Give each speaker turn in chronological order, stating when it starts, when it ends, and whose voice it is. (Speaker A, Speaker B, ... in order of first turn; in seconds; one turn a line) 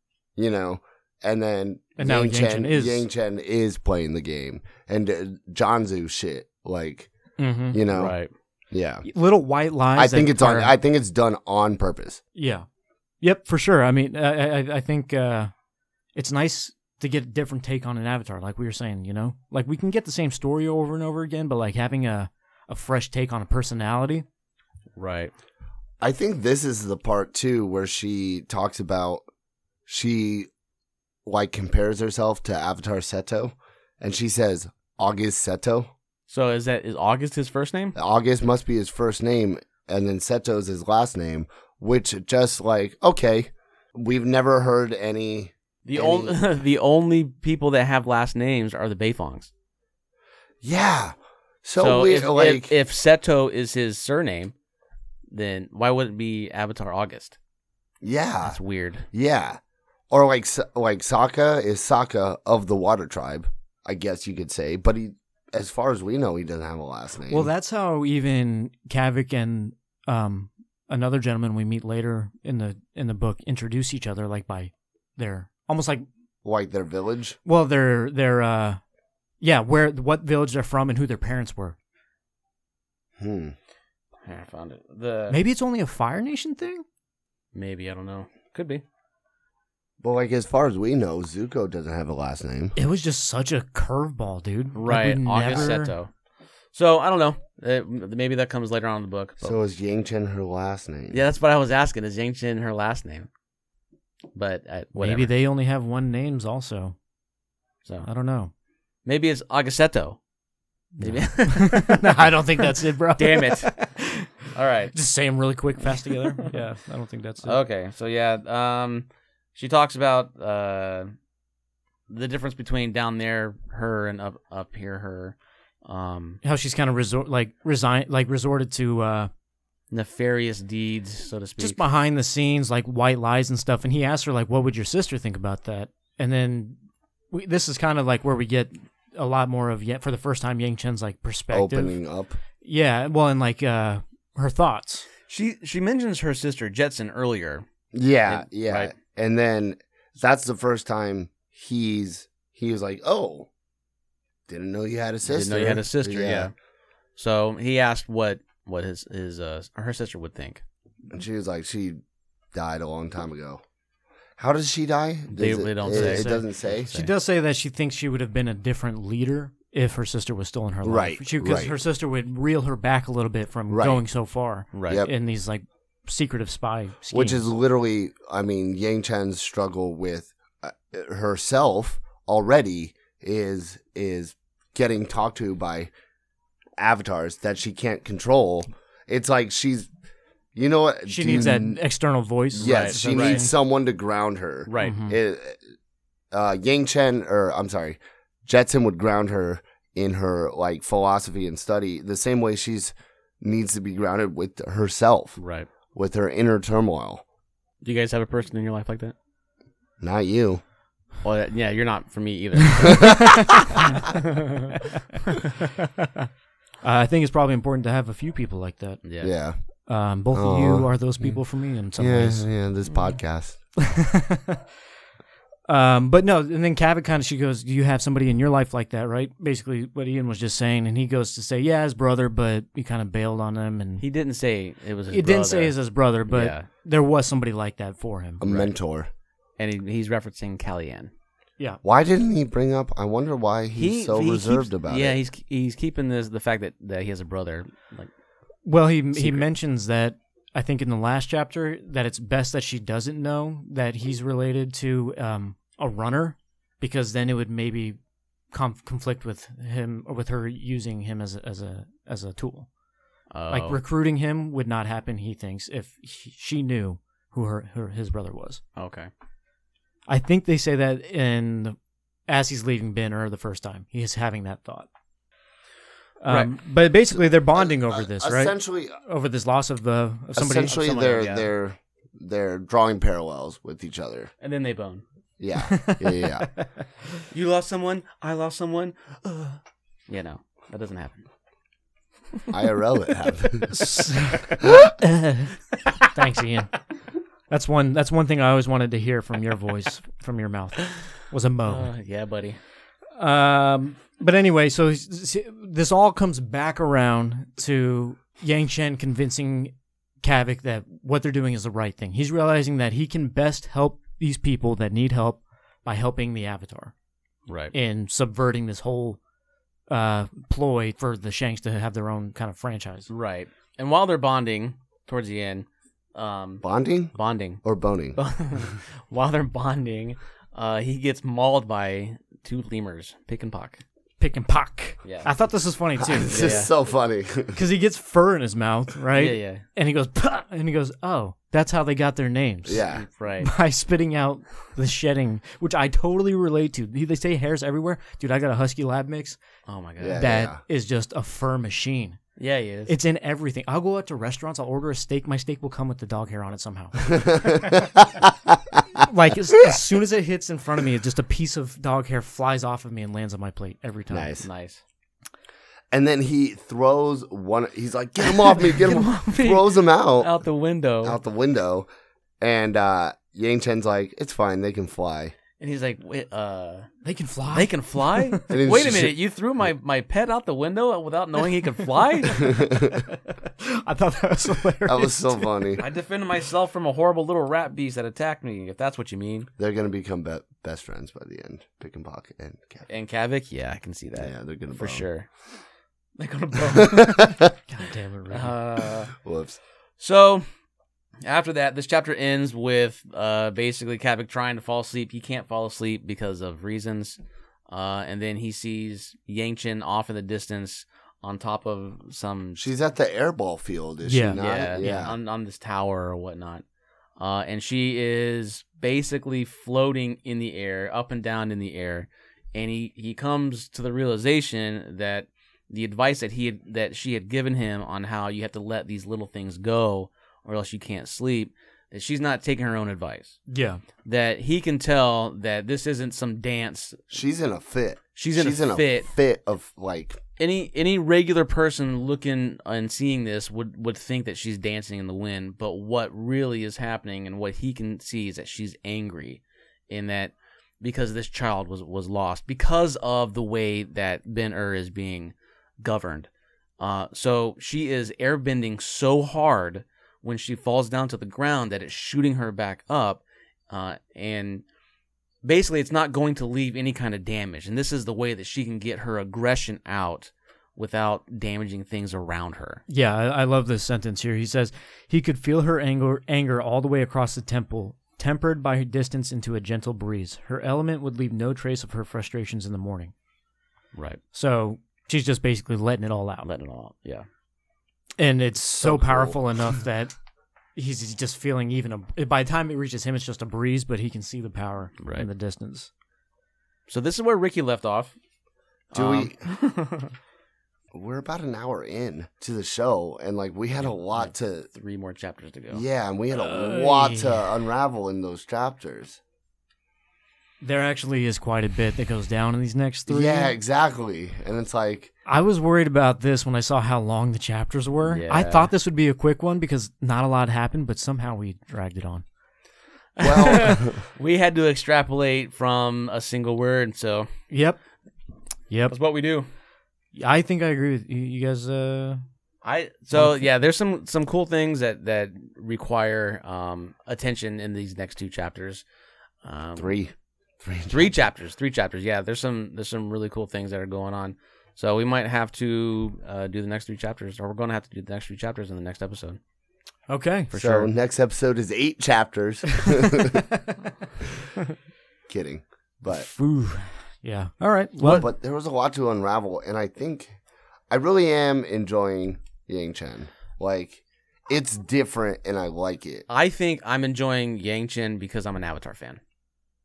Speaker A: 0.4-7.1
Speaker B: 2.0-3.1
Speaker B: 7.4-7.8
Speaker A: 7.7-8.2
Speaker C: 7.9-8.3
Speaker A: 8.7-9.1
Speaker B: 9.1-10.8
Speaker A: 10.0-12.2
Speaker B: 12.3-12.7
Speaker B: 13.2-15.5
Speaker B: 16.1-24.2
Speaker C: 25.0-25.3
Speaker A: 26.0-29.2
Speaker A: 29.9-30.5
Speaker A: 31.2-35.9
Speaker C: 36.3-38.0
Speaker A: 38.0-46.4
Speaker C: 45.9-49.5
Speaker A: 50.6-52.7
Speaker C: 51.8-54.5
Speaker C: 55.3-57.4
Speaker A: 58.0-58.6
Speaker C: 58.4-59.1
Speaker A: 59.1-59.6
Speaker A: 60.1-67.5
Speaker B: 67.3-76.0
Speaker A: 76.4-77.4
Speaker B: 77.5-78.8
Speaker B: 79.4-81.8
Speaker A: 83.2-83.5
Speaker C: 84.2-85.4
Speaker B: 85.3-86.8
Speaker C: 87.5-88.8
Speaker A: 90.0-92.7
Speaker B: 92.8-95.9
Speaker C: 94.8-96.1
Speaker C: 96.7-99.6
Speaker A: 99.4-101.2
Speaker C: 101.1-103.3
Speaker C: 104.3-105.3
Speaker B: 105.0-107.0
Speaker B: 108.0-108.5
Speaker C: 109.1-110.2
Speaker B: 111.0-114.3
Speaker C: 111.0-113.8
Speaker C: 114.5-115.0
Speaker B: 114.9-117.6
Speaker C: 116.0-116.5
Speaker C: 117.4-121.1
Speaker C: 122.1-126.4
Speaker B: 126.4-129.3
Speaker C: 129.9-131.8
Speaker B: 131.6-136.8
Speaker B: 137.3-142.0
Speaker A: 141.5-142.4
Speaker B: 142.6-145.1
Speaker C: 145.3-147.7
Speaker A: 147.9-153.5
Speaker C: 148.3-148.9
Speaker A: 154.5-156.5
Speaker C: 155.3-156.5
Speaker C: 157.2-160.6
Speaker A: 161.1-162.0
Speaker A: 162.5-163.6
Speaker A: 164.4-166.9
Speaker C: 165.3-167.1
Speaker B: 165.9-177.5
Speaker A: 170.8-171.7
Speaker A: 173.7-174.0
Speaker C: 174.7-175.1
Speaker A: 177.1-185.9
Speaker A: 186.8-189.9
Speaker A: 190.6-191.8
Speaker B: 191.1-193.5
Speaker A: 192.6-195.6
Speaker C: 192.6-193.4
Speaker C: 194.7-195.0
Speaker B: 194.8-195.2
Speaker A: 196.3-205.4
Speaker C: 205.4-205.7
Speaker A: 205.9-207.2
Speaker C: 207.8-209.1
Speaker A: 210.0-210.6
Speaker C: 211.2-214.7
Speaker B: 212.8-213.8
Speaker A: 212.9-213.4
Speaker B: 216.8-219.0
Speaker C: 219.0-219.3
Speaker A: 219.2-219.6
Speaker B: 219.9-222.5
Speaker A: 220.3-221.4
Speaker A: 222.0-223.6
Speaker B: 223.8-224.6
Speaker B: 225.7-234.0
Speaker C: 234.0-235.8
Speaker B: 235.1-238.5
Speaker C: 236.3-236.7
Speaker A: 238.4-239.1
Speaker C: 238.4-238.7
Speaker C: 239.6-241.1
Speaker A: 241.8-245.2
Speaker C: 243.8-248.1
Speaker B: 248.7-258.0
Speaker B: 258.5-262.7
Speaker C: 263.3-263.8
Speaker B: 263.5-268.6
Speaker C: 268.8-269.1
Speaker B: 270.1-271.8
Speaker B: 272.3-274.9
Speaker B: 276.2-281.2
Speaker C: 276.3-276.5
Speaker A: 277.6-279.0
Speaker A: 280.4-284.3
Speaker C: 280.9-281.5
Speaker C: 284.4-285.0
Speaker A: 285.4-286.5
Speaker B: 285.6-286.7
Speaker C: 287.3-291.2
Speaker A: 292.5-293.8
Speaker B: 293.7-295.5
Speaker B: 296.1-296.7
Speaker B: 297.5-301.9
Speaker C: 301.7-302.6
Speaker B: 303.2-316.9
Speaker C: 317.5-317.7
Speaker B: 317.7-319.2
Speaker B: 319.9-323.1
Speaker C: 323.1-327.6
Speaker A: 326.6-328.2
Speaker C: 328.2-333.8
Speaker B: 334.2-336.4
Speaker C: 335.0-335.3
Speaker A: 336.0-337.6
Speaker C: 336.3-336.7
Speaker B: 337.5-342.9
Speaker C: 339.1-339.6
Speaker A: 342.7-343.1
Speaker C: 342.7-343.5
Speaker B: 343.4-349.4
Speaker C: 349.7-350.2
Speaker A: 350.0-350.6
Speaker B: 350.2-352.2
Speaker C: 352.4-352.9
Speaker B: 352.9-357.9
Speaker A: 357.1-358.8
Speaker B: 359.0-364.3
Speaker A: 364.1-364.5
Speaker C: 364.4-364.8
Speaker A: 365.9-370.3
Speaker C: 368.2-371.2
Speaker A: 371.0-371.9
Speaker A: 372.4-375.4
Speaker C: 375.6-376.9
Speaker B: 377.0-378.4
Speaker C: 377.5-382.5
Speaker A: 378.5-379.1
Speaker A: 382.4-383.1
Speaker B: 382.4-385.8
Speaker A: 384.9-385.8
Speaker C: 385.8-389.5
Speaker A: 389.6-392.9
Speaker C: 392.9-395.3
Speaker A: 394.2-395.1
Speaker C: 396.2-397.4
Speaker A: 396.7-397.4
Speaker B: 397.7-398.6
Speaker C: 398.3-399.1
Speaker A: 399.1-399.6
Speaker C: 400.0-400.4
Speaker C: 401.2-412.6
Speaker A: 412.6-415.2
Speaker B: 414.0-414.4
Speaker C: 414.4-416.6
Speaker C: 417.2-433.4
Speaker B: 433.5-433.8
Speaker C: 434.1-437.2
Speaker A: 437.1-440.2
Speaker C: 438.2-439.1
Speaker C: 440.4-456.3
Speaker C: 456.8-464.6
Speaker C: 465.4-472.8
Speaker B: 472.9-483.1
Speaker C: 483.9-484.2
Speaker B: 484.3-486.5
Speaker C: 486.4-487.3
Speaker B: 488.2-490.1
Speaker A: 488.7-489.4
Speaker B: 490.8-495.9
Speaker C: 495.0-495.3
Speaker C: 496.9-498.1
Speaker C: 498.9-500.1
Speaker A: 498.9-499.4
Speaker A: 500.9-504.7
Speaker C: 503.8-505.9
Speaker A: 505.7-509.2
Speaker B: 506.3-507.5
Speaker B: 510.6-513.5
Speaker A: 513.1-515.1
Speaker B: 515.3-522.2
Speaker C: 518.1-518.7
Speaker C: 523.2-527.3
Speaker A: 523.2-524.0
Speaker B: 527.5-527.8
Speaker B: 528.7-529.0
Speaker C: 528.9-529.5
Speaker B: 530.1-532.2
Speaker C: 532.6-538.8
Speaker B: 533.1-533.4
Speaker C: 539.4-540.0
Speaker A: 539.8-541.1
Speaker C: 540.9-549.4
Speaker B: 550.1-550.5
Speaker C: 550.5-550.9
Speaker A: 550.5-553.5
Speaker B: 552.8-553.9
Speaker A: 555.3-556.3
Speaker B: 556.1-558.2
Speaker C: 558.0-558.3
Speaker A: 558.2-560.4
Speaker A: 560.9-566.2
Speaker C: 566.3-569.2